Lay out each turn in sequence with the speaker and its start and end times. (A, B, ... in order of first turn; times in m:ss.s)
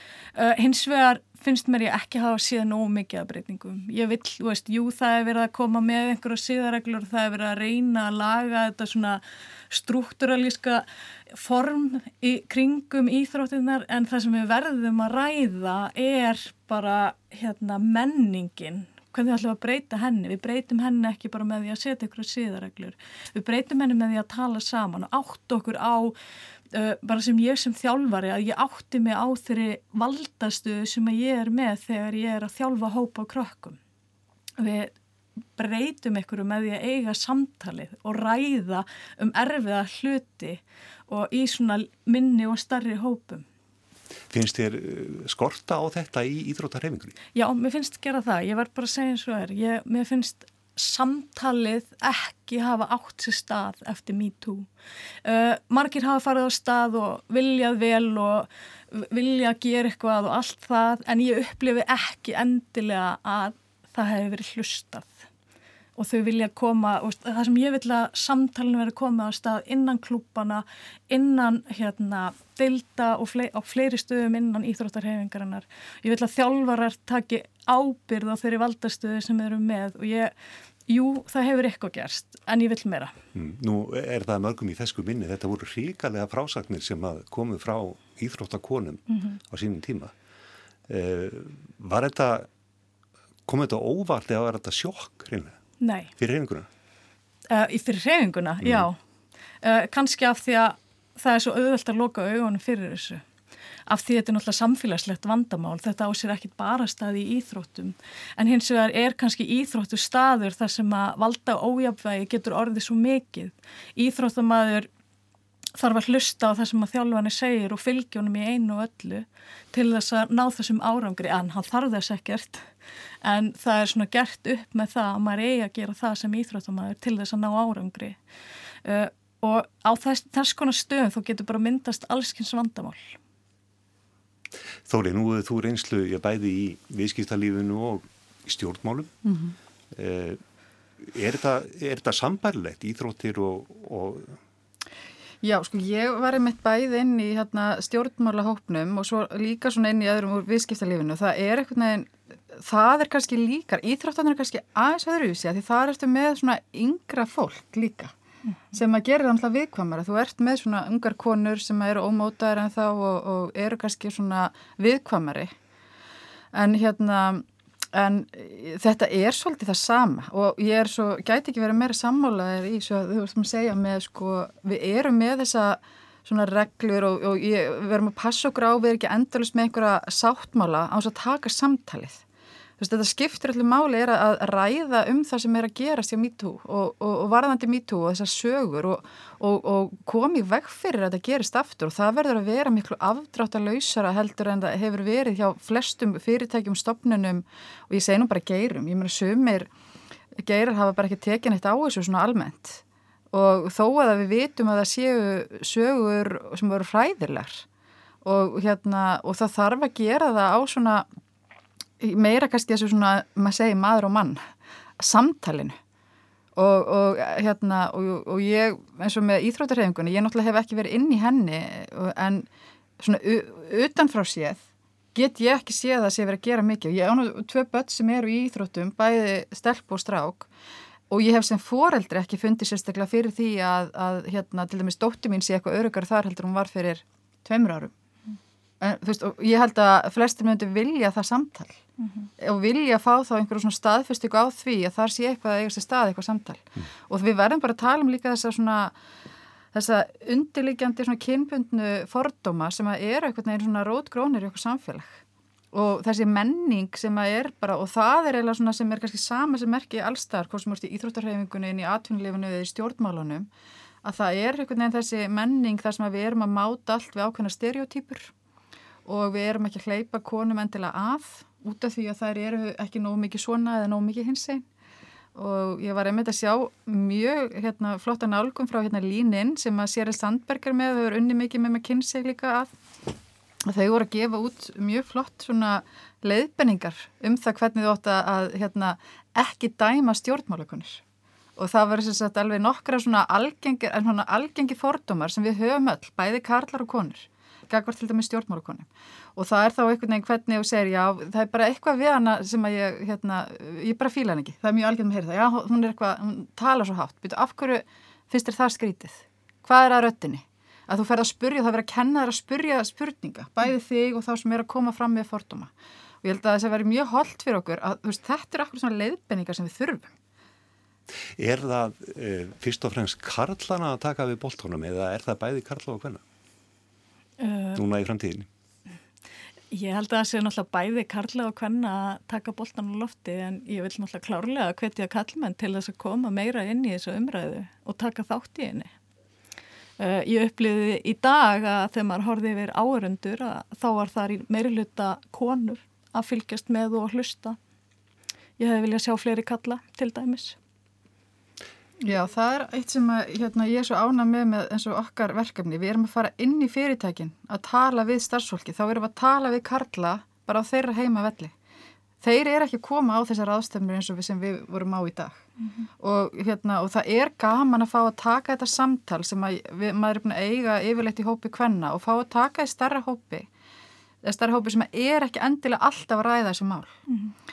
0:00.4-0:26.1 A
0:26.7-0:33.8 A
0:34.6-0:34.9 A
0:35.6-0:43.4 A
0:44.3-0:47.2 B
0:47.3-0:54.7 A
0:55.2-1:05.3 A
1:06.0-1:20.3 A
1:20.9-1:23.1 A
1:23.3-1:30.1 B
1:29.1-1:29.4 A
1:30.9-1:32.5 B
1:33.4-1:35.6 B
1:35.8-1:36.1 A
1:36.2-1:36.7 B
1:37.5-1:39.0 A
1:38.6-1:38.9 B
1:39.6-1:43.2 A
1:43.9-1:54.9 A
1:55.8-2:02.7 A
2:03.2-2:08.2 A
2:08.8-2:13.2 A
2:14.9-2:19.1 B
2:19.2-2:19.6 C
2:19.9-2:20.4 B
2:21.0-2:24.4 B
2:25.4-2:38.1 C
2:38.7-2:45.5 C
2:46.5-3:02.2 C
3:02.8-3:19.7 C
3:20.4-3:27.6 C
3:28.2-3:31.1 C
3:32.0-3:35.8 C
3:36.6-3:42.5 C
3:43.0-3:44.6 C
3:45.1-3:50.5 C
3:51.1-3:57.9 C
3:58.8-4:01.8 C
4:02.0-4:02.3 A
4:02.4-4:08.9 C
4:09.7-4:15.2 C
4:15.7-4:23.5 C
4:24.0-4:28.3 C
4:29.0-4:34.6 C
4:35.3-4:42.7 C
4:43.7-4:51.0 C
4:51.6-5:15.7 C
5:16.2-5:20.1 C
5:21.4-5:26.2 B
5:27.4-5:27.8 A
5:27.7-5:28.5 B
5:29.7-5:38.9 A
5:40.0-5:47.6 A
5:48.6-5:50.6 A
5:52.0-6:01.5 C
6:02.2-6:05.4 C
6:06.0-6:13.5 C
6:14.2-6:17.0 C
6:17.1-6:17.3 A